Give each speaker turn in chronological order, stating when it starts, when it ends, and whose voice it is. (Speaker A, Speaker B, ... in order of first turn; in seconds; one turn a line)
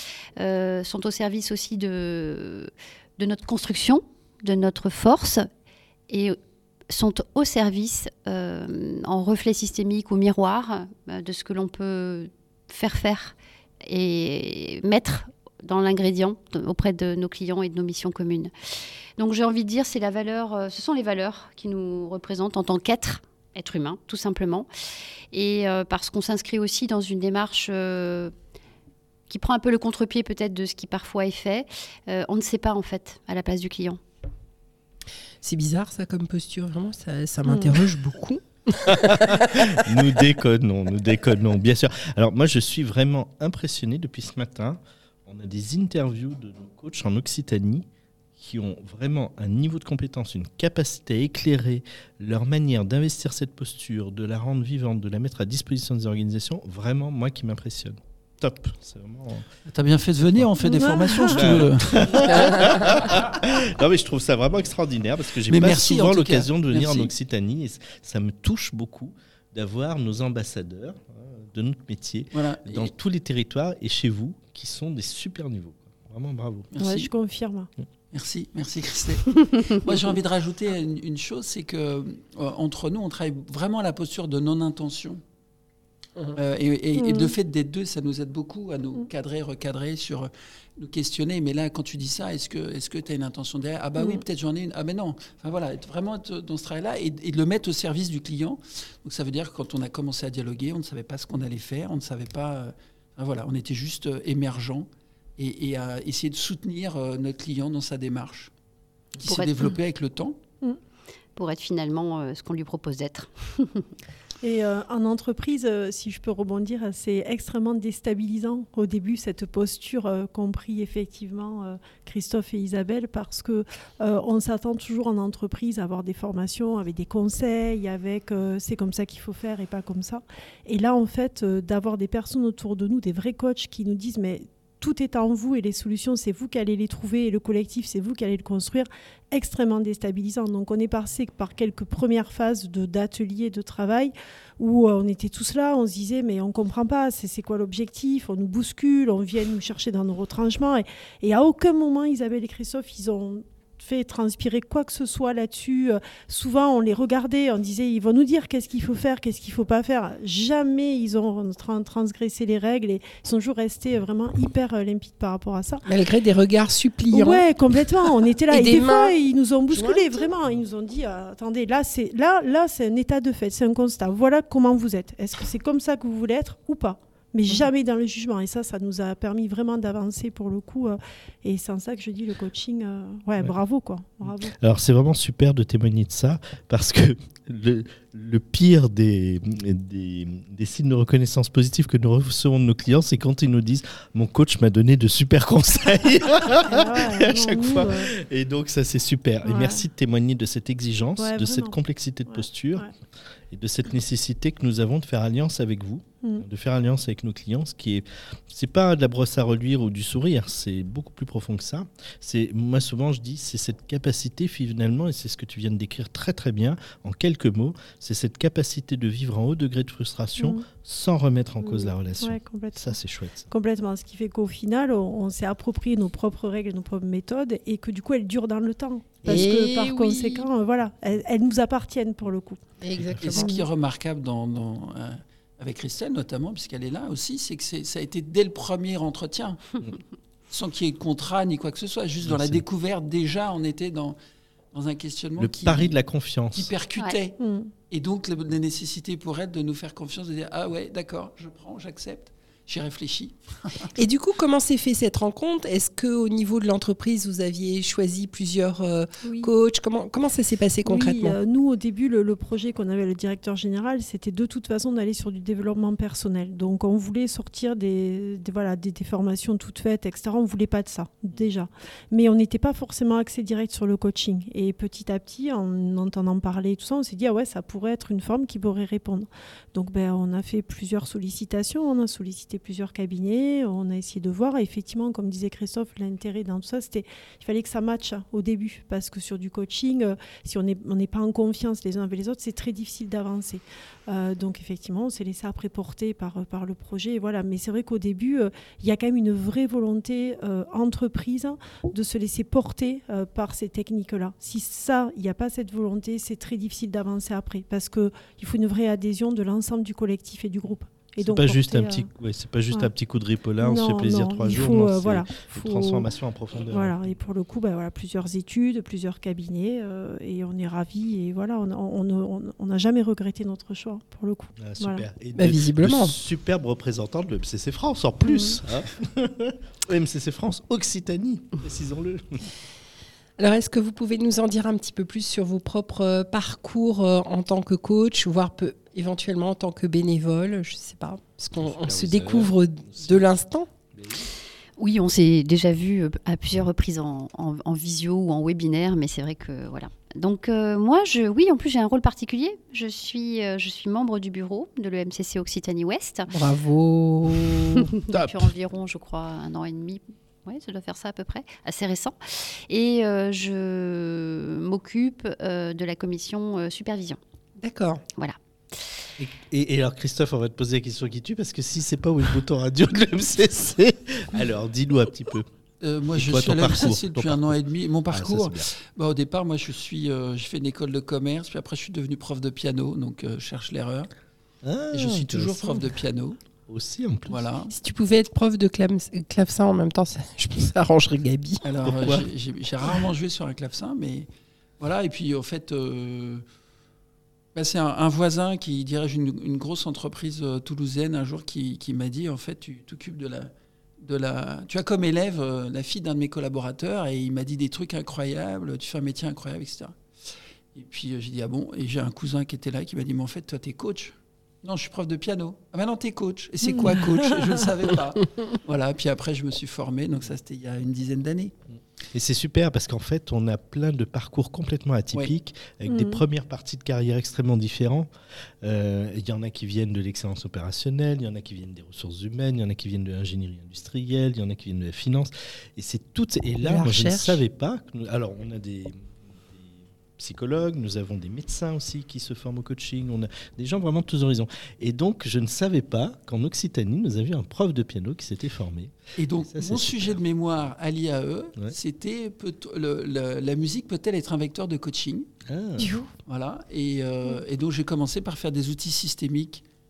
Speaker A: 0.4-5.5
Speaker A: 6.1-6.4
Speaker A: 6.9-18.5
Speaker A: 19.2-24.7
Speaker A: 25.3-28.3
Speaker A: 29.3-34.0
Speaker B: 35.4-39.9
Speaker C: 37.5-37.8
Speaker D: 38.9-47.9
Speaker D: 48.4-59.5
Speaker E: 59.7-62.5
Speaker C: 60.6-61.6
Speaker D: 61.2-76.7
Speaker B: 62.3-62.9
Speaker E: 65.5-67.1
Speaker E: 72.3-72.9
Speaker E: 76.7-77.1
Speaker C: 76.8-77.7
Speaker E: 78.1-85.2
Speaker E: 86.3-108.5
Speaker C: 87.0-87.3
Speaker E: 109.2-110.4
Speaker A: 109.2-109.7
Speaker A: 111.4-113.9
Speaker C: 114.4-165.8
Speaker B: 165.9-167.4
Speaker C: 167.1-184.6
Speaker B: 168.5-169.2
Speaker B: 169.7-170.3
Speaker D: 184.6-202.9
Speaker C: 196.6-198.1
Speaker C: 199.4-199.8
Speaker C: 201.2-201.8
Speaker C: 202.3-202.9
Speaker D: 203.5-223.5
Speaker C: 220.4-220.6
Speaker C: 221.6-223.0
Speaker C: 223.5-232.7
Speaker B: 229.2-230.5
Speaker B: 232.8-233.5
Speaker D: 232.9-233.4
Speaker E: 233.3-239.8
Speaker C: 233.4-233.6
Speaker E: 240.5-244.2
Speaker D: 242.2-242.6
Speaker E: 244.7-245.9
Speaker D: 245.4-246.7
Speaker E: 246.5-247.4
Speaker C: 247.4-247.7
Speaker E: 247.9-253.9
Speaker B: 253.9-261.4
Speaker C: 259.2-259.5
Speaker C: 260.9-312.1
Speaker D: 311.2-317.0
Speaker C: 313.6-316.1
Speaker C: 316.7-325.0
Speaker D: 324.6-332.4
Speaker B: 325.4-326.1
Speaker C: 328.2-328.6
Speaker B: 333.4-343.7
Speaker D: 341.6-343.3
Speaker D: 343.9-344.3
Speaker A: 344.8-356.3
Speaker B: 356.3-357.9
Speaker A: 357.5-367.2
Speaker D: 358.1-358.5
Speaker B: 367.6-368.0
Speaker A: 368.1-369.0
Speaker D: 369.2-375.5
Speaker E: 375.8-384.1
Speaker D: 376.1-377.6
Speaker D: 378.1-378.7
Speaker D: 384.6-385.9
Speaker E: 384.9-386.4
Speaker D: 386.7-387.4
Speaker E: 387.3-387.7
Speaker B: 387.7-391.6
Speaker E: 391.6-394.3
Speaker D: 391.8-392.2
Speaker E: 394.8-396.4
Speaker E: 397.5-410.0
Speaker E: 410.7-421.5
Speaker C: 416.6-417.5
Speaker D: 422.1-428.1
Speaker C: 425.9-426.2
Speaker D: 428.6-448.9
Speaker B: 436.6-437.4
Speaker E: 449.2-455.3
Speaker D: 449.5-450.2
Speaker D: 455.4-456.0
Speaker C: 455.8-456.1
Speaker E: 456.2-459.6